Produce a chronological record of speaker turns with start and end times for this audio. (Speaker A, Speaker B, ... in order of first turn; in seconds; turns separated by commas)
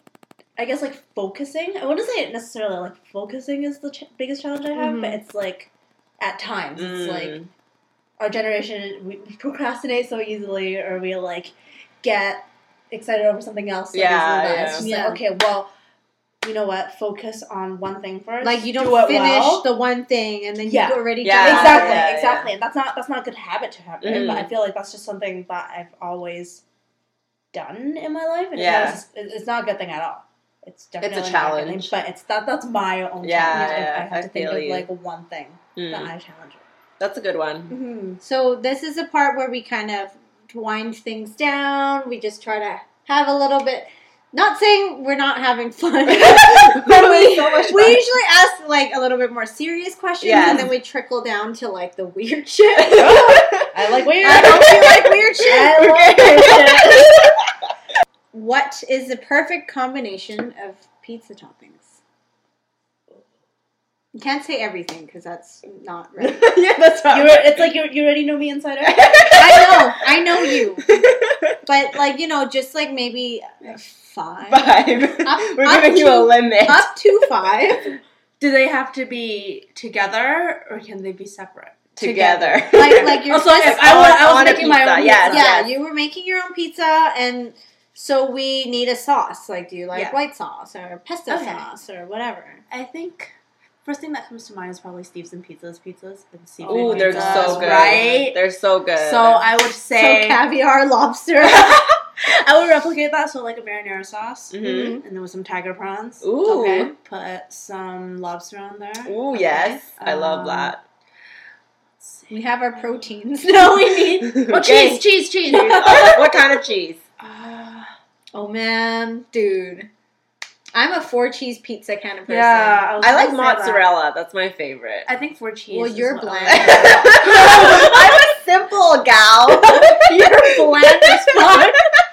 Speaker A: 0.6-7.4, Speaker B: 4.7-5.2, Speaker C: 6.8-7.5, Speaker A: 8.2-15.7, Speaker C: 13.9-14.9, Speaker B: 14.7-15.2, Speaker A: 16.4-19.7, Speaker B: 18.4-22.1, Speaker A: 20.6-26.6, Speaker C: 21.2-22.5, Speaker C: 24.0-24.5, Speaker A: 27.5-36.6, Speaker C: 28.5-29.0, Speaker C: 31.0-31.9, Speaker C: 33.2-34.9, Speaker B: 33.5-33.9, Speaker C: 35.8-36.1, Speaker C: 37.0-37.7, Speaker A: 37.7-38.2, Speaker B: 38.2-53.3, Speaker C: 46.1-48.0, Speaker C: 50.2-50.7, Speaker C: 52.8-57.5, Speaker A: 53.0-57.0, Speaker B: 54.2-56.6, Speaker B: 58.3-62.0, Speaker B: 64.1-66.5, Speaker C: 66.2-67.7, Speaker A: 67.1-69.5, Speaker C: 68.8-71.6, Speaker B: 69.3-70.9, Speaker B: 71.7-74.7, Speaker C: 74.5-76.9, Speaker B: 75.2-77.9, Speaker A: 78.4-85.5, Speaker C: 82.0-85.7, Speaker B: 82.2-84.2, Speaker B: 85.2-92.6, Speaker A: 91.3-91.7, Speaker A: 92.7-98.4, Speaker B: 96.6-98.1, Speaker C: 96.7-99.5, Speaker A: 99.0-100.4, Speaker B: 99.9-101.8, Speaker A: 101.4-110.8, Speaker C: 104.5-105.0, Speaker B: 104.6-105.0, Speaker C: 106.2-106.9, Speaker B: 106.5-106.9, Speaker C: 109.0-110.8, Speaker A: 112.0-113.0, Speaker B: 112.3-114.8, Speaker C: 114.3-117.0, Speaker A: 114.4-116.4, Speaker B: 115.5-116.2, Speaker A: 117.2-117.9, Speaker B: 118.3-119.9, Speaker B: 120.7-122.9, Speaker C: 122.3-125.1, Speaker A: 122.5-123.8, Speaker A: 125.0-128.2, Speaker B: 125.7-127.3, Speaker C: 126.5-131.7, Speaker B: 129.7-131.8